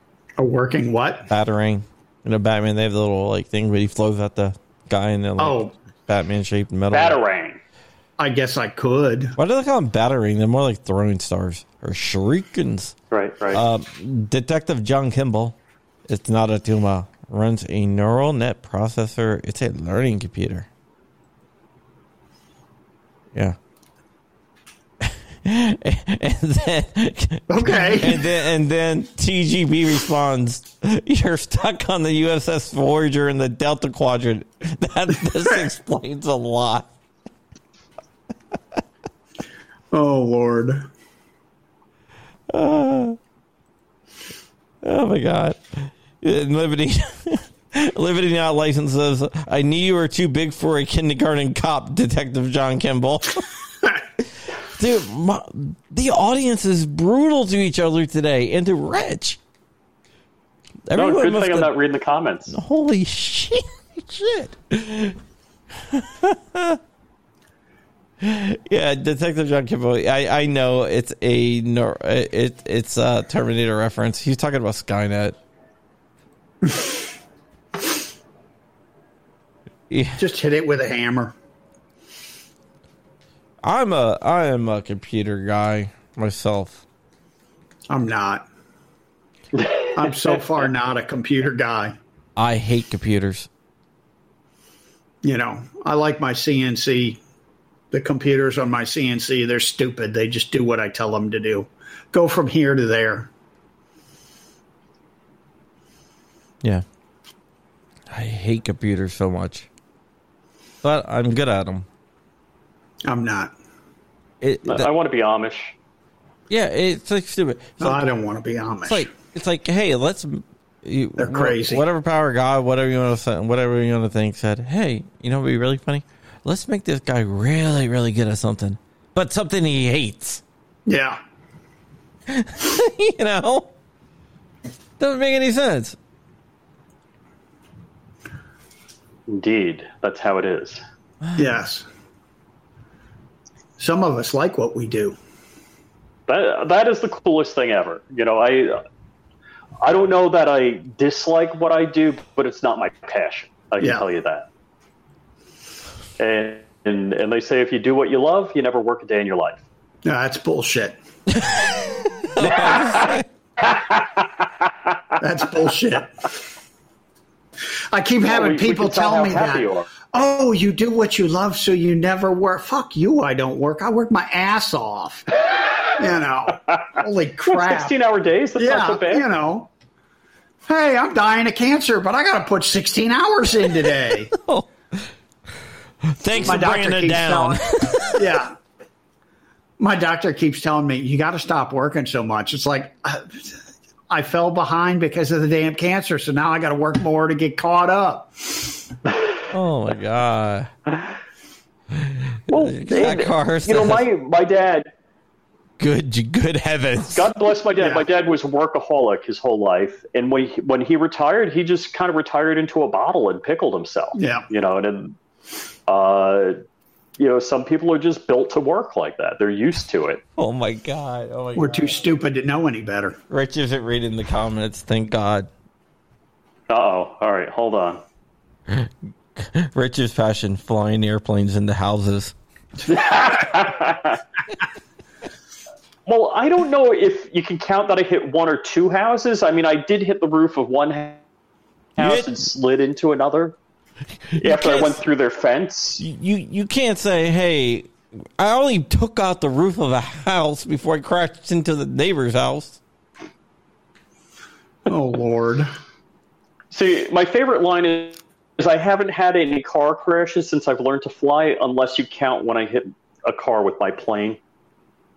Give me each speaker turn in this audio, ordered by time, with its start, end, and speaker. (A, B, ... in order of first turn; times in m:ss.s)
0:00.4-0:01.3 A
0:01.3-0:07.2 B
0:05.4-0:05.7 A
0:06.9-0:07.6 C
0:08.2-0:09.4 A
0:09.4-0:13.0 B
0:13.1-0:13.6 C
0:13.5-0:20.7 B
0:25.0-0:36.9 B
0:27.5-0:28.3 A
0:39.9-0:40.9 A
0:42.5-0:43.2 B
0:44.8-0:53.5 B
0:54.2-0:59.4 B
1:00.9-1:01.8 B
1:00.9-1:02.6 C
1:02.5-1:05.2 B
1:05.8-1:06.8 B
1:08.2-1:15.4 B
1:19.9-1:20.2 B
1:20.2-1:21.4 A
1:23.6-1:26.8 B
1:27.9-1:28.5 A
1:29.6-1:29.9 C
1:30.0-1:32.0 A
1:32.4-1:33.5 B
1:35.2-1:37.2 A
1:37.9-1:43.3 A
1:48.1-1:49.7 B
1:50.8-1:51.9 B
1:53.0-1:53.5 A
1:54.4-1:54.9 B
1:54.6-1:55.8 C
1:56.5-1:58.1 B
1:57.8-1:59.1 A
1:58.8-2:10.4 B
2:01.2-2:01.8 A
2:10.9-2:11.2 A
2:12.3-2:13.7 B
2:15.0-2:16.0 B
2:19.3-2:20.8 C
2:21.4-2:21.9 A
2:23.8-2:25.2 A
2:26.3-2:28.8 C
2:29.8-2:34.5 C
2:36.2-2:39.6 C
2:40.0-2:41.0 A
2:41.3-2:43.3 B
2:42.4-2:43.2 C
2:45.2-2:46.3 A
2:47.9-2:55.4 A
2:48.2-2:49.9 C
2:56.0-2:58.0 A
2:57.5-2:59.3 C
2:58.6-2:59.7 A
3:00.7-3:04.3 A
3:04.3-3:05.1 B
3:06.0-3:08.2 B
3:06.3-3:08.6 A
3:09.8-3:13.6 A
3:14.1-3:18.8 A
3:19.5-3:20.7 B
3:21.9-3:24.1 B
3:22.5-3:24.9 C
3:25.8-3:27.3 B
3:27.0-3:35.2 C
3:27.8-3:28.1 A
3:34.2-3:34.5 A
3:35.9-3:36.6 C
3:37.2-3:40.2 C
3:40.4-3:42.0 B
3:41.6-3:43.2 A
3:43.3-3:45.5 B
3:46.7-3:48.0 C
3:48.7-3:52.4 B
3:52.8-3:54.2 C
3:56.1-4:01.2 C
4:02.0-4:03.6 C
4:02.0-4:02.3 B
4:04.4-4:06.0 C
4:04.4-4:05.0 B
4:06.0-4:12.8 B
4:14.9-4:15.7 A
4:16.7-4:24.4 C